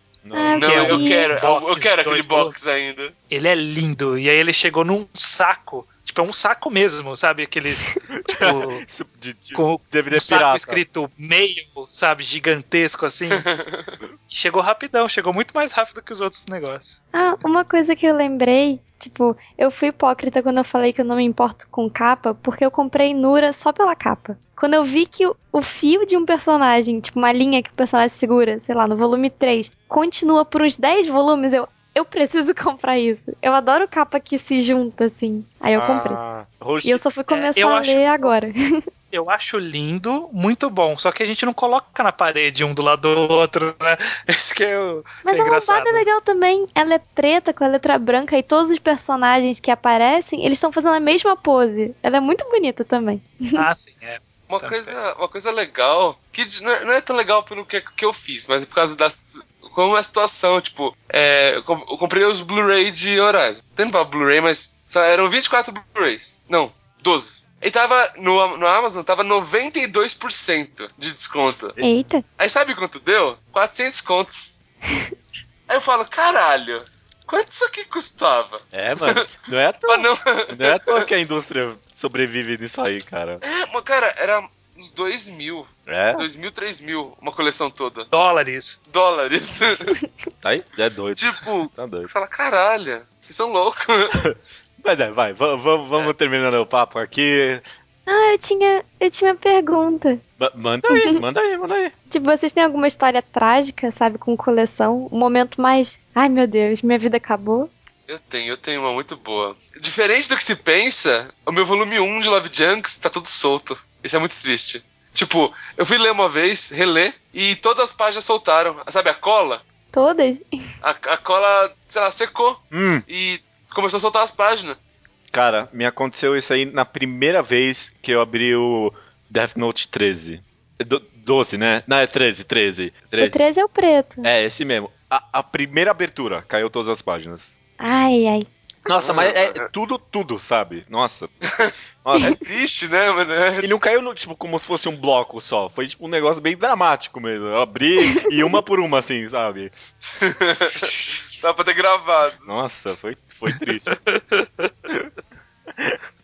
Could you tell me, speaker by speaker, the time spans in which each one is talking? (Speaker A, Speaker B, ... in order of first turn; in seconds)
Speaker A: 0.2-0.9, 8.2-10.8, 35.8-37.0, 78.7-83.4, 85.9-86.3, 90.4-92.1, 94.2-97.6, 100.4-101.9, 122.7-123.0, 125.3-133.3, 134.2-137.6, 138.9-141.3, 142.0-142.3, 143.6-149.7, 152.4-154.0
Speaker B: 0.3-1.3, 17.1-36.2, 36.8-38.5, 45.2-53.7, 71.8-72.2, 98.1-100.2, 100.9-101.2, 102.1-107.7, 119.9-120.6, 133.2-134.3, 137.8-138.5
Speaker C: 0.5-2.8, 3.3-8.8, 9.6-13.5, 14.3-17.0, 37.3-38.3, 39.1-46.0, 53.6-55.0, 88.1-88.8
Speaker D: 0.6-3.1, 13.4-13.7, 54.5-71.8, 72.4-74.3, 75.7-79.3, 79.9-81.1, 83.4-88.1, 88.9-90.0, 91.2-94.2, 108.1-119.6, 120.8-124.8, 139.0-139.7, 141.5-143.7, 150.2-152.4